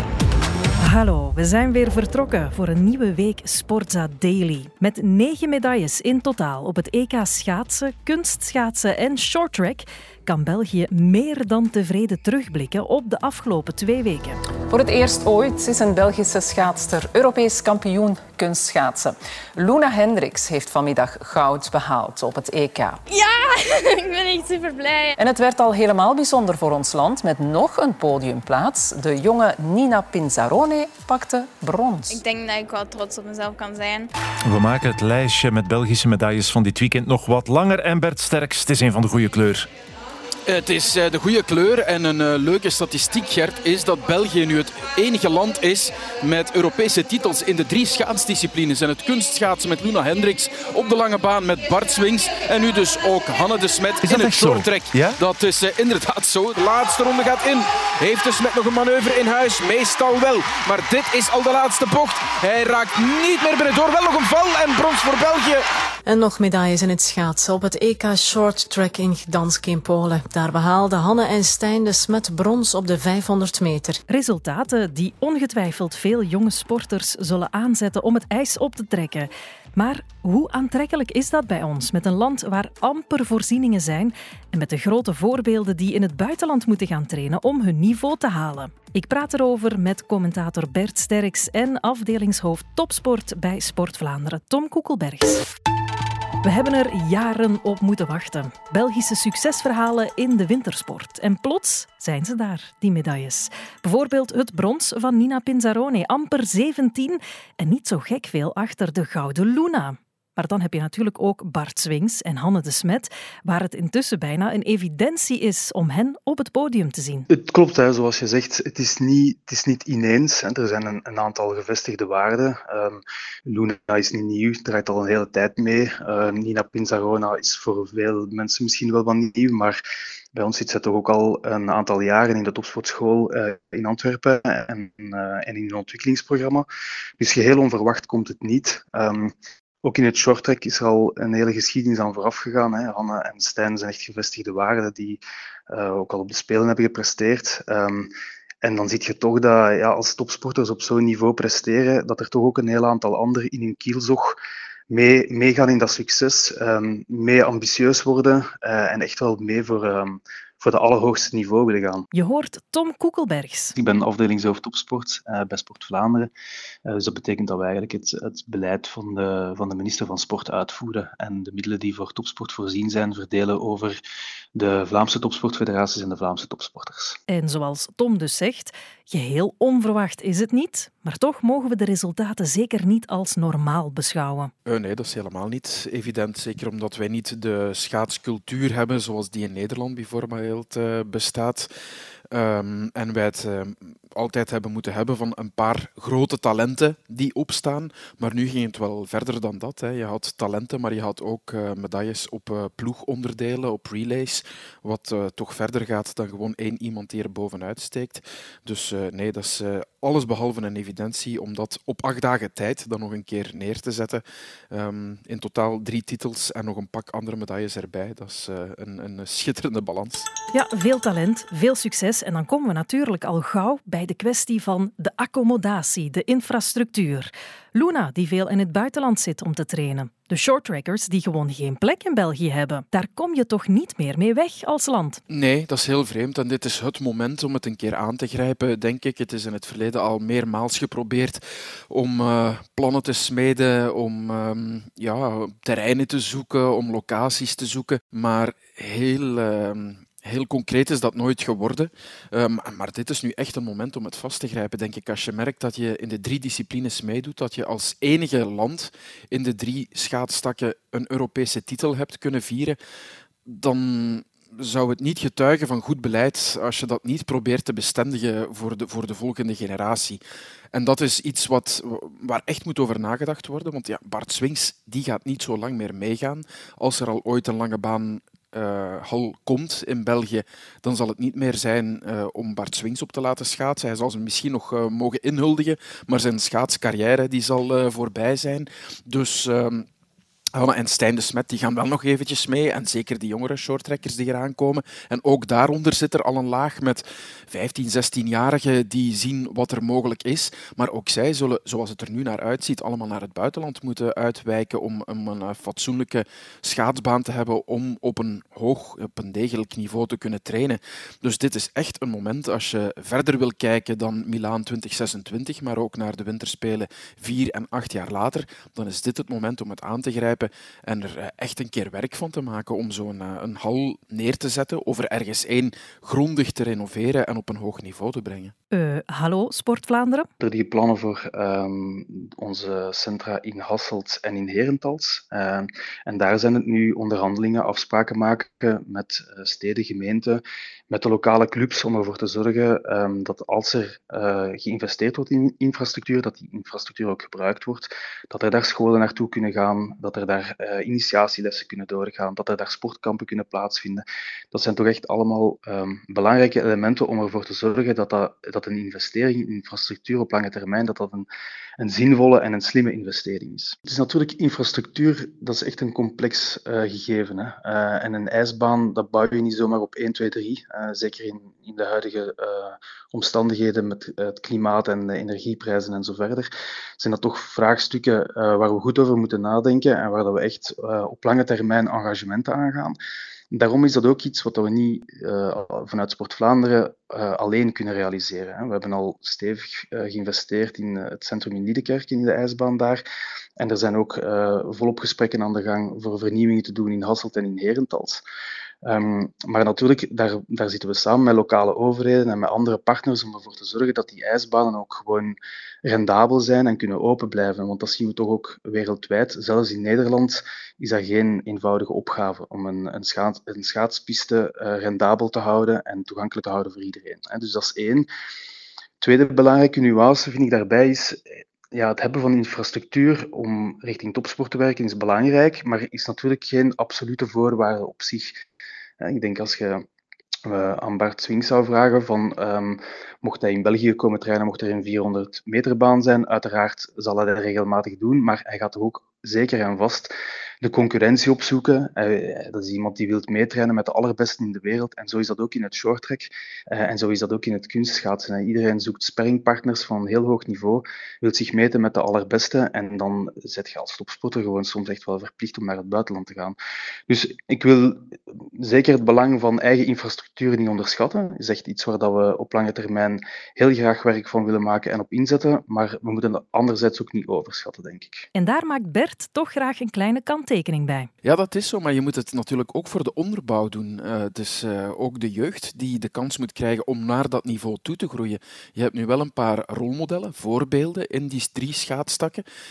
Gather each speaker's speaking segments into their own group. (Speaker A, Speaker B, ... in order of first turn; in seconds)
Speaker A: 0.8-14.4, 74.1-95.4, 96.4-117.3, 162.1-163.7, 177.3-184.5, 220.5-235.2, 328.7-330.3, 468.3-471.1
Speaker B: 14.7-23.0, 25.2-32.2
Speaker C: 23.1-25.2, 32.1-34.1
Speaker D: 34.5-39.7, 54.0-55.2
Speaker E: 40.5-65.6, 184.7-191.7, 192.3-220.3, 235.3-241.4, 241.9-262.8, 263.4-270.2, 270.7-289.9, 290.5-328.5, 471.2-482.4
Speaker F: 66.1-74.0
Speaker G: 117.3-129.8, 130.3-136.7, 137.2-139.3, 139.8-148.1, 148.6-154.4, 154.9-162.1, 163.8-166.3, 166.9-174.0, 174.5-177.2, 330.4-361.3, 361.8-383.0, 383.5-393.0, 393.6-398.2, 398.8-418.1, 419.0-428.4, 429.0-429.8, 430.4-456.6, 457.1-468.3